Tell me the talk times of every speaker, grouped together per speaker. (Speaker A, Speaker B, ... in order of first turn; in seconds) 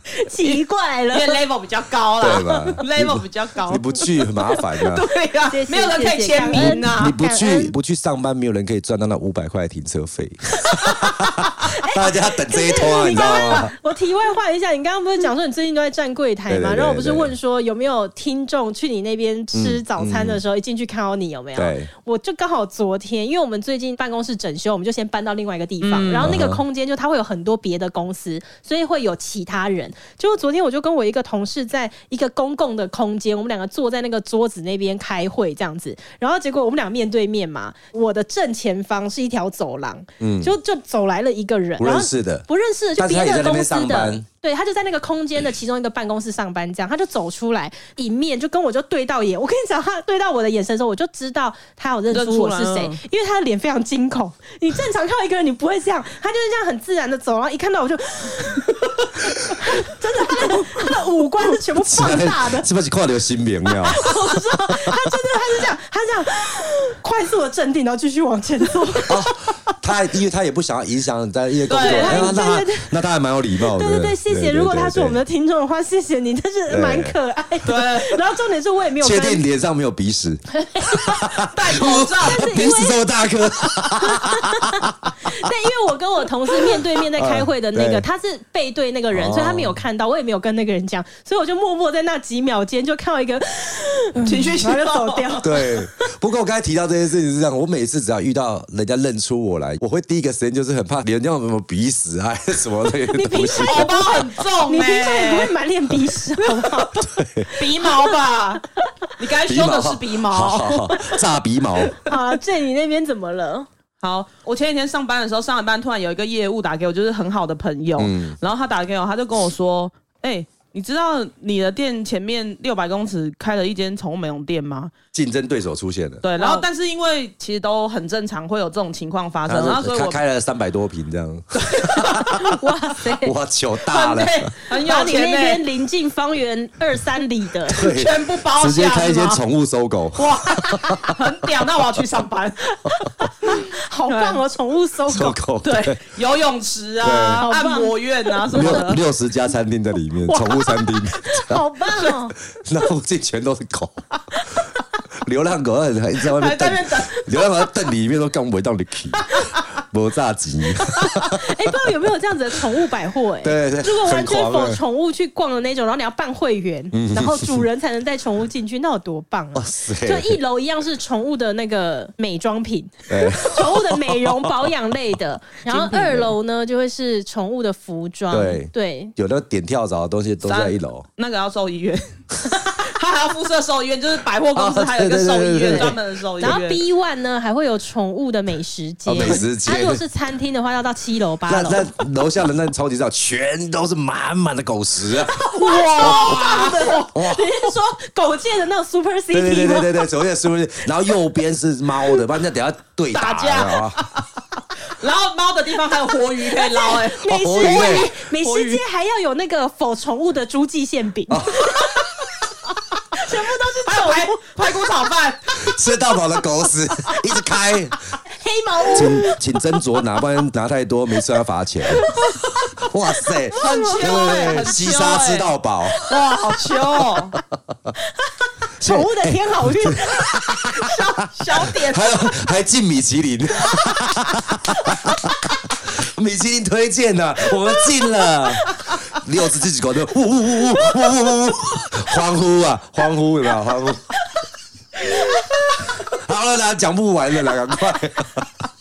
Speaker A: 0.1-1.4, 2.5-2.8, 5.5-7.7, 10.7-62.7, 63.8-69.5, 71.8-72.9, 73.6-79.4, 80.5-83.0, 84.0-96.1, 103.0-108.2, 108.8-109.1, 111.9-113.7, 126.3-126.7, 132.4-133.3, 134.7-137.8, 143.2-145.4, 147.4-148.9, 151.3-152.3, 161.1-179.1, 185.7-191.9, 195.4-200.1, 206.5-212.0, 213.1-214.9, 218.4-219.4, 219.9-220.2, 221.9-224.7, 225.9-226.6, 228.2-230.9, 233.7-235.1, 245.2-245.4
Speaker B: 0.4-3.9, 4.8-7.2, 13.3-13.6, 25.8-26.3, 52.1-53.0, 71.7-72.3, 77.6-78.2, 81.4-82.5, 94.2-95.4, 103.6-105.5, 107.5-108.6, 109.2-111.0, 114.0-124.9, 126.2-130.2, 131.5-132.5, 133.8-135.6, 137.7-139.4, 140.1-144.4, 145.6-149.0, 150.3-151.4, 156.2-157.7, 159.2-159.7, 175.7-176.3, 180.4-186.8, 195.4-197.1, 203.1-204.2, 204.8-208.8, 213.8-215.6, 223.6-225.5, 226.1-227.4, 230.8-232.3
Speaker C: 2.2-5.1, 6.5-13.7, 16.5-17.3, 19.5-20.4, 21.6-21.9, 26.2-26.6, 40.2-40.5, 41.8-42.4, 43.0-44.2, 61.9-65.0, 69.1-75.2, 76.7-77.2, 79.0-85.5, 86.7-88.0, 89.1-89.8, 95.4-104.3, 106.9-107.5, 109.4-112.0, 118.0-118.3, 125.1-126.2, 129.5-134.5, 137.7-141.1, 145.1-146.1, 147.0-147.4, 148.5-151.6, 152.4-154.6, 155.2-161.7, 163.4-164.8, 166.9-167.6, 169.5-170.4, 173.1-174.5, 178.3-181.1, 184.5-186.6, 189.1-190.0, 191.4-197.7, 199.3-204.1, 207.2-208.1, 211.3-211.7, 215.6-218.2, 218.9-222.1, 222.8-226.0, 228.8-244.1, 245.9-248.6